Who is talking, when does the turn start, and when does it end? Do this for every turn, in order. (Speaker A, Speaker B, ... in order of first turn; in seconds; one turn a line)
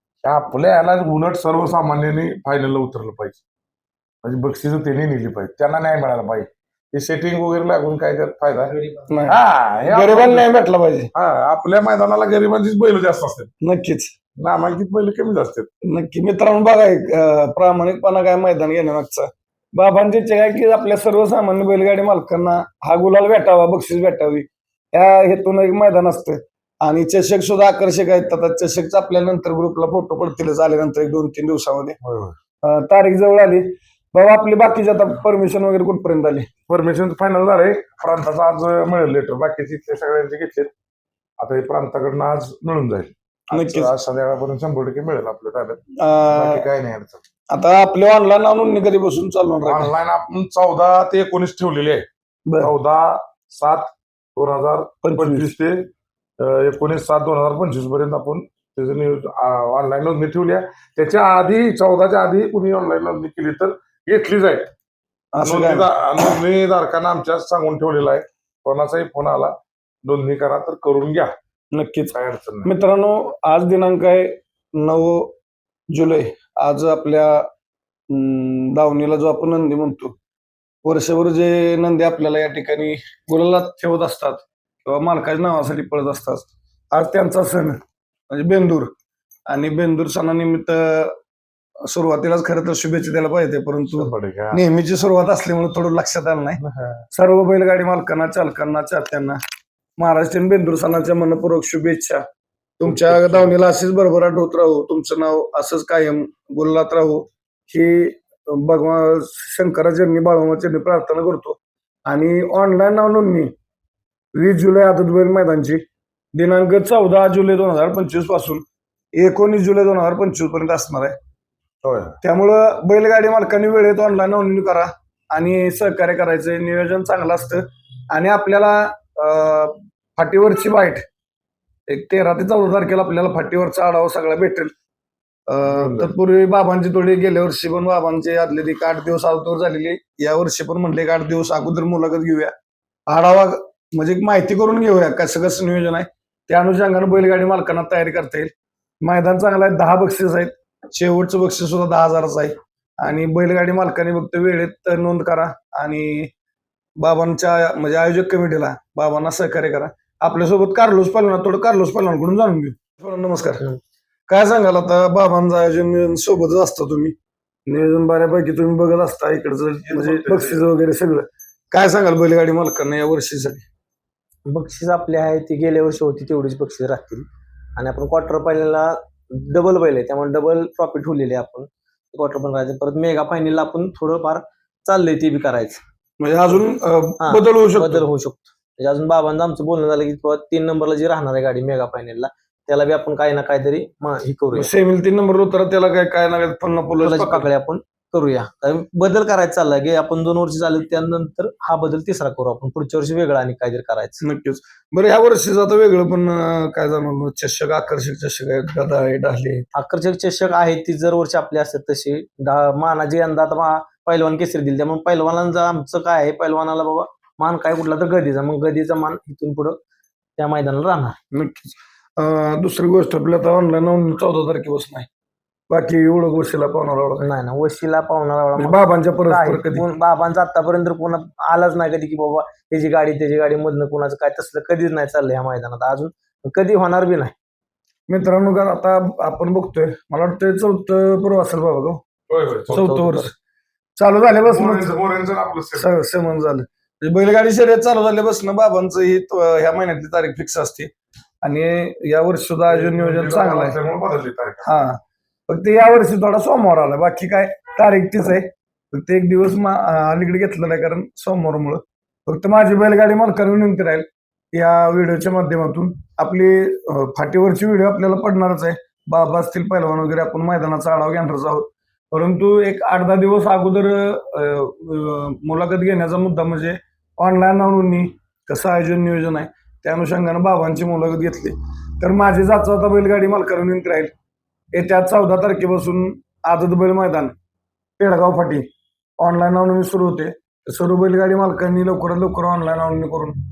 Speaker A: 0.2-3.4
Speaker A: 4.2-10.5
Speaker B: 9.1-11.1
Speaker A: 11.1-13.5
Speaker B: 13.6-14.2
Speaker A: 14.4-15.7
Speaker B: 15.8-32.0
Speaker A: 32.0-32.4
Speaker B: 32.6-36.5
Speaker A: 36.7-40.7
Speaker A: 41.4-47.2
Speaker B: 43.5-43.9
Speaker B: 46.0-46.7
Speaker B: 47.5-49.9
Speaker A: 49.7-52.0
Speaker A: 52.6-55.9
Speaker B: 55.0-55.5
Speaker A: 56.4-64.7
Speaker B: 65.3-65.9
Speaker A: 65.4-71.3
Speaker B: 71.7-75.3
Speaker A: 72.1-72.7
Speaker B: 75.9-77.5
Speaker B: 78.1-80.2
Speaker B: 80.8-87.8
Speaker B: 88.3-88.9
Speaker B: 89.5-91.2
Speaker B: 91.9-96.6
Speaker A: 93.9-94.6
Speaker A: 96.6-97.0
Speaker B: 97.1-99.4
Speaker B: 100.0-102.2
Speaker B: 102.8-113.5
Speaker A: 102.8-103.6
Speaker B: 114.3-115.8
Speaker B: 116.3-118.7
Speaker B: 119.2-121.1
Speaker A: 121.8-122.2
Speaker B: 122.2-131.1
Speaker B: 131.9-134.7
Speaker B: 135.5-142.5
Speaker A: 135.7-136.1
Speaker B: 143.1-156.3
Speaker B: 157.0-163.7
Speaker B: 164.3-167.1
Speaker B: 167.7-173.7
Speaker A: 169.9-170.6
Speaker C: 174.5-185.8
Speaker B: 186.2-188.0
Speaker C: 187.2-194.7
Speaker B: 194.5-197.5
Speaker C: 197.0-204.2
Speaker B: 204.2-209.7
Speaker C: 209.8-219.8
Speaker C: 220.4-221.2
Speaker B: 221.3-225.1
Speaker B: 225.7-227.2
Speaker C: 227.2-237.3
Speaker B: 228.6-229.8
Speaker B: 238.1-242.0
Speaker A: 242.3-242.8
Speaker C: 242.7-243.3
Speaker B: 242.7-243.3
Speaker B: 244.0-245.0
Speaker A: 244.5-245.9
Speaker B: 245.8-253.8
Speaker A: 252.7-254.7
Speaker B: 254.6-284.1
Speaker B: 284.7-287.3
Speaker B: 288.0-288.7
Speaker B: 289.2-293.4